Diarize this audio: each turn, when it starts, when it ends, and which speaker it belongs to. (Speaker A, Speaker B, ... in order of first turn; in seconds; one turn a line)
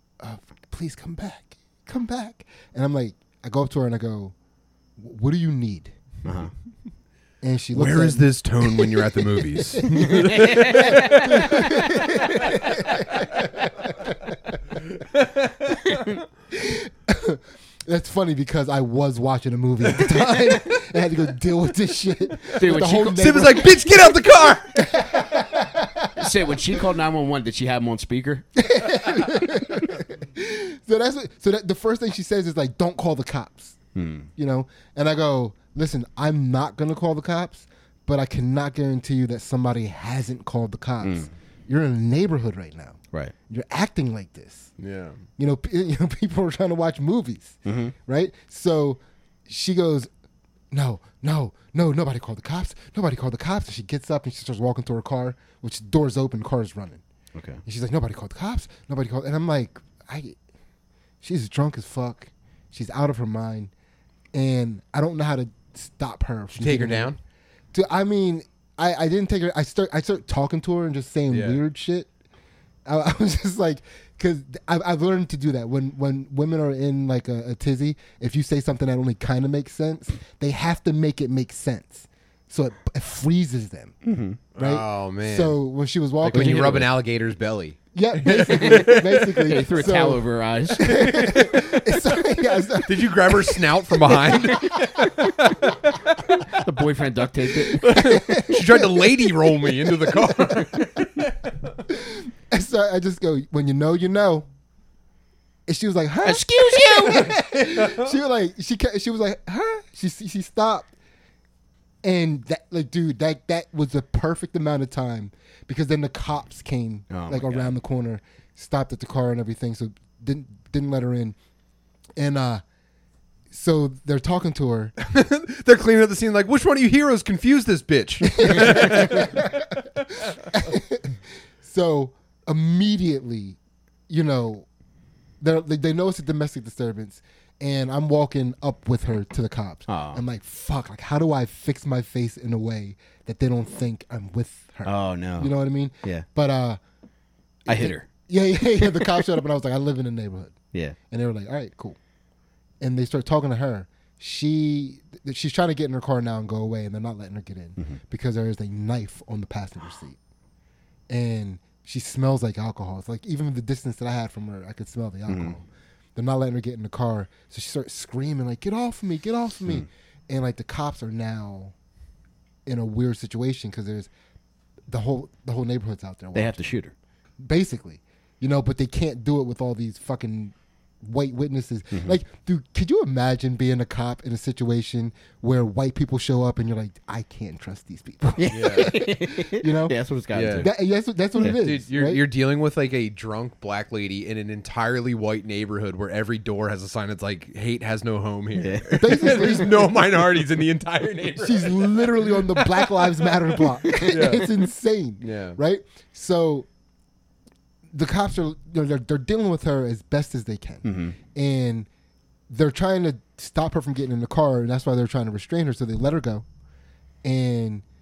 Speaker A: 0.2-4.3
Speaker A: 5.0-6.0
Speaker B: 6.2-6.5
Speaker A: 7.4-14.6
Speaker C: 7.7-11.7
Speaker B: 10.1-11.8
Speaker C: 15.0-16.1
Speaker B: 15.8-16.2
Speaker A: 16.5-26.2
Speaker B: 22.5-23.4
Speaker C: 22.6-24.9
Speaker B: 26.2-28.5
Speaker A: 28.6-33.8
Speaker B: 33.9-34.3
Speaker A: 34.4-44.7
Speaker B: 41.0-41.3
Speaker C: 44.8-45.2
Speaker A: 45.4-50.1
Speaker B: 47.6-47.9
Speaker A: 50.7-57.0
Speaker B: 57.3-57.6
Speaker A: 57.6-60.4
Speaker A: 61.2-63.7
Speaker A: 64.3-67.2
Speaker C: 66.5-67.2
Speaker A: 67.7-72.1
Speaker C: 71.3-71.6
Speaker A: 72.8-84.0
Speaker B: 84.0-84.4
Speaker C: 84.5-85.6
Speaker A: 84.6-86.9
Speaker C: 86.2-89.6
Speaker B: 86.3-86.9
Speaker A: 87.9-95.1
Speaker B: 88.6-88.9
Speaker B: 89.5-91.7
Speaker C: 90.8-91.8
Speaker C: 92.8-96.6
Speaker B: 96.6-98.7
Speaker C: 97.5-101.5
Speaker A: 97.9-100.3
Speaker A: 101.9-104.5
Speaker A: 105.7-110.9
Speaker B: 106.2-107.4
Speaker C: 107.8-108.1
Speaker A: 112.0-121.3
Speaker B: 117.1-117.7
Speaker A: 122.2-122.6
Speaker A: 123.5-124.9
Speaker C: 125.0-129.6
Speaker A: 128.3-129.7
Speaker A: 130.5-133.6
Speaker A: 134.1-134.7
Speaker A: 135.4-146.8
Speaker B: 139.9-140.2
Speaker B: 144.8-146.2
Speaker B: 147.7-148.1
Speaker A: 147.7-150.6
Speaker B: 148.9-149.3
Speaker A: 151.1-152.0
Speaker A: 152.8-160.2
Speaker A: 161.1-171.7
Speaker B: 165.3-165.5
Speaker A: 172.7-174.1
Speaker A: 174.9-176.6
Speaker B: 176.3-176.9
Speaker A: 177.4-190.0
Speaker B: 188.4-190.7
Speaker C: 188.5-188.9
Speaker C: 190.3-190.7
Speaker A: 190.6-192.2
Speaker C: 191.4-202.6
Speaker B: 198.6-199.6
Speaker A: 199.0-199.9
Speaker A: 201.4-206.7
Speaker B: 203.9-204.4
Speaker C: 204.0-204.5
Speaker C: 205.2-205.6
Speaker A: 207.9-211.9
Speaker B: 210.8-211.1
Speaker A: 212.5-216.4
Speaker A: 217.2-217.8